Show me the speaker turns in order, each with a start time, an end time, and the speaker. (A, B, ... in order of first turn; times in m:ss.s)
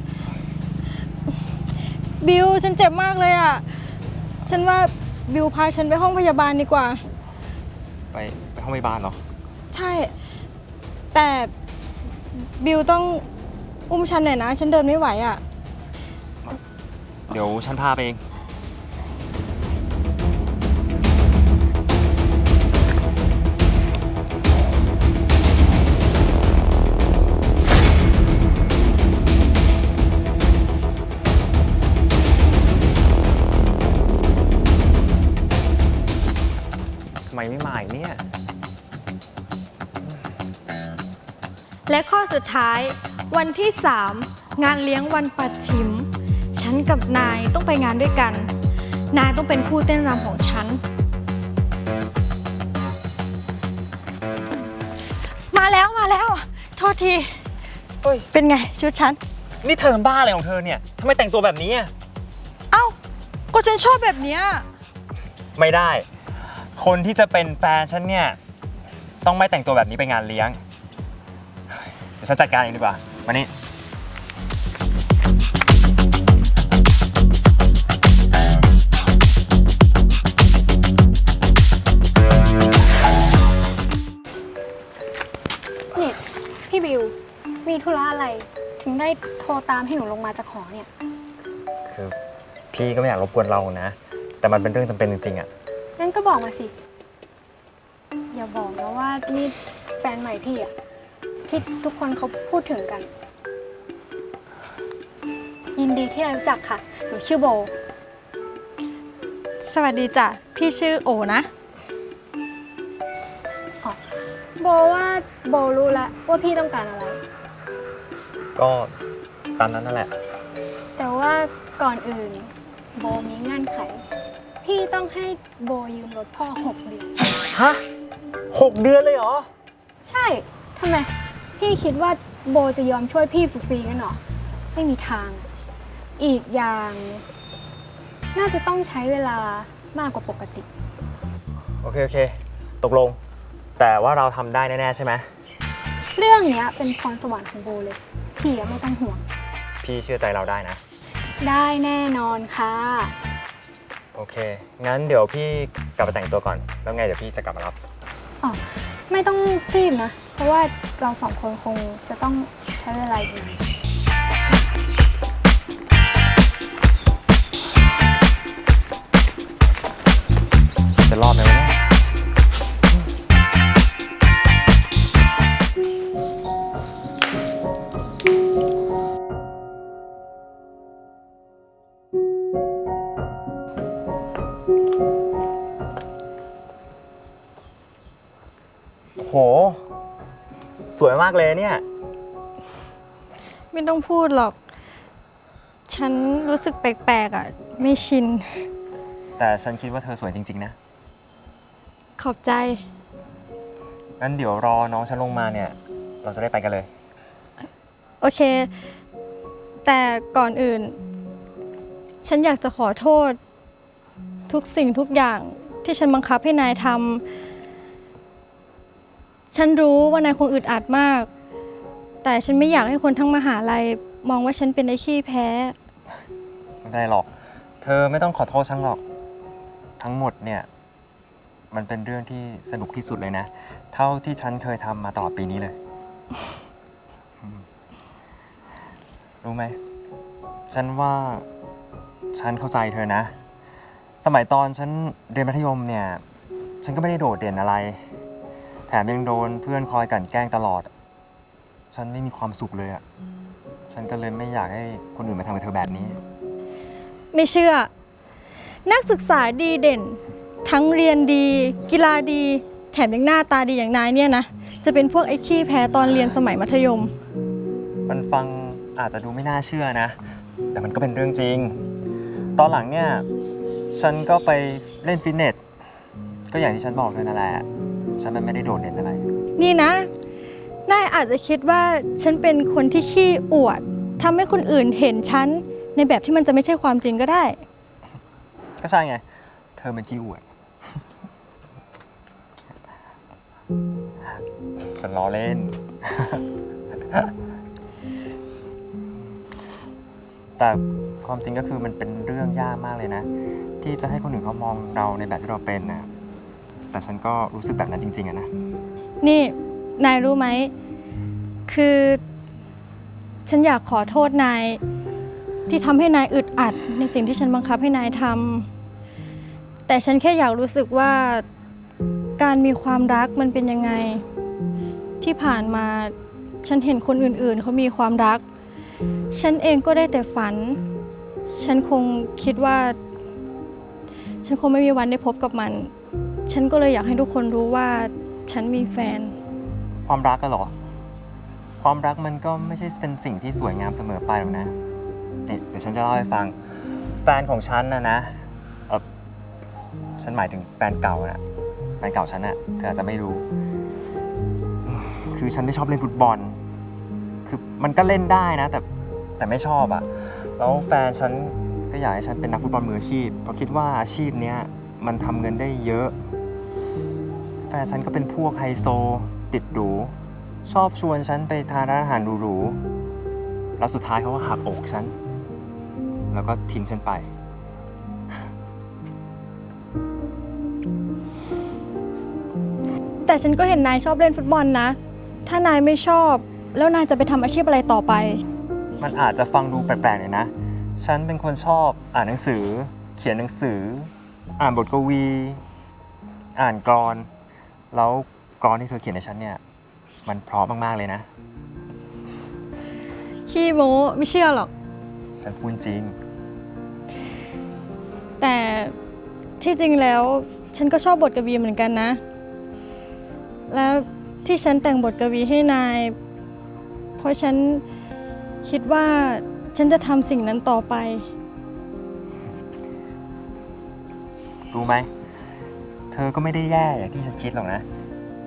0:02.2-0:03.7 A
0:04.4-0:07.0 A
0:08.1-0:09.2 B
0:09.7-0:10.1 A
0:11.1-0:11.5 A
0:12.3-0:13.2 A
0:13.9-0:15.4 A
0:17.3-0:18.2 B
0:37.3-0:38.2 B
0:41.9-0:48.5 A
0:49.1-0:50.8 A
0:55.5-0:57.4 A
0:58.0-0:58.3 B
0:58.3-0:59.2 A
0:59.6-1:01.9 B
1:02.7-1:03.0 A
1:03.5-1:04.6 A
1:05.6-1:06.0 B
1:06.7-1:08.4 B
1:09.2-1:10.6 B
1:12.2-1:13.5 B
1:25.9-1:27.1 C
1:27.6-1:30.9 C
1:31.9-1:32.2 B
1:32.7-1:35.5 B
1:36.0-1:36.7 C
1:38.3-1:40.7 C
1:41.5-1:43.1 C
1:45.8-1:47.7 C
1:49.6-1:51.5 A
1:54.6-1:57.2 C
1:58.6-1:58.9 B
1:59.6-2:00.1 B
2:01.0-2:04.0 C
2:04.6-2:07.2 C
2:07.5-2:07.8 B
2:08.5-2:09.5 B
2:10.1-2:14.2 C
2:14.7-2:15.5 C
2:16.2-2:17.2 C
2:18.3-2:20.6 C
2:21.8-2:23.2 B
2:23.8-2:25.3 B
2:26.2-2:29.2 C
2:29.8-2:30.8 B
2:31.4-2:33.1 C
2:34.1-2:37.8 B
2:38.4-2:43.6 C
2:51.1-2:51.8 B
3:09.2-3:09.8 B
3:10.9-3:11.8 B
3:13.7-3:14.6 A
3:15.9-3:18.6 A
3:19.4-3:20.8 B
3:22.2-3:22.8 A
3:24.2-3:26.9 B
3:28.2-3:28.7 A
3:29.8-3:31.0 A
3:32.2-3:33.4 A
3:34.5-3:37.2 A
3:39.5-3:41.3 A
3:42.2-3:45.8 A
3:46.8-3:47.3 B
3:47.8-3:49.0 B
3:50.0-3:50.7 B
3:51.7-3:55.8 B
3:59.4-3:59.8 B
4:00.7-4:01.4 B
4:02.3-4:03.3 B
4:04.2-4:06.2 B
4:06.8-4:08.0 B
4:08.9-4:10.9 B
4:11.9-4:13.0 B
4:13.9-4:16.2 B
4:17.3-4:17.9 A
4:18.8-4:27.1 A
4:28.1-4:30.2 B
4:30.7-4:31.8 B
4:32.6-4:33.2 B
4:33.9-4:35.6 B
4:36.5-4:39.2 B
4:39.6-4:40.1 A
4:40.8-4:47.6 A
4:48.8-4:49.2 B
4:49.8-4:50.4 B
4:54.9-4:56.4 B
5:00.6-5:03.3 B
5:03.8-5:06.1 B
5:06.9-5:08.5 B
5:09.2-5:10.7 A
5:11.7-5:12.2 A
5:13.4-5:14.8 A
5:15.7-5:18.7 A
5:19.9-5:21.4 A
5:22.4-5:24.2 A
5:25.2-5:28.4 A
5:29.3-5:30.8 A
5:31.5-5:33.0 A
5:34.4-5:35.9 A
5:36.5-5:39.3 A
5:40.0-5:40.7 B
5:41.8-5:44.7 B
5:45.4-5:46.5 B
5:47.2-5:49.0 B
5:50.2-5:51.4 B
5:52.0-5:53.4 B
5:54.8-5:56.6 B
5:57.4-5:58.8 B
5:59.4-6:06.1 B
6:07.7-6:10.1 B
6:10.6-6:12.8 B
6:13.8-6:15.1 B
6:16.3-6:17.3 B
6:23.2-6:28.4 A
6:29.0-6:35.6 B
6:36.6-6:37.3 B
6:37.9-6:39.6 B
6:40.2-6:41.3 B
6:43.5-6:44.7 A
6:45.4-6:46.1 B
6:48.4-6:48.9 A
6:49.6-6:52.2 A
6:53.7-6:56.1 A
6:57.2-6:57.8 A
6:58.6-7:01.3 A
7:04.7-7:05.1 B
7:06.1-7:07.8 B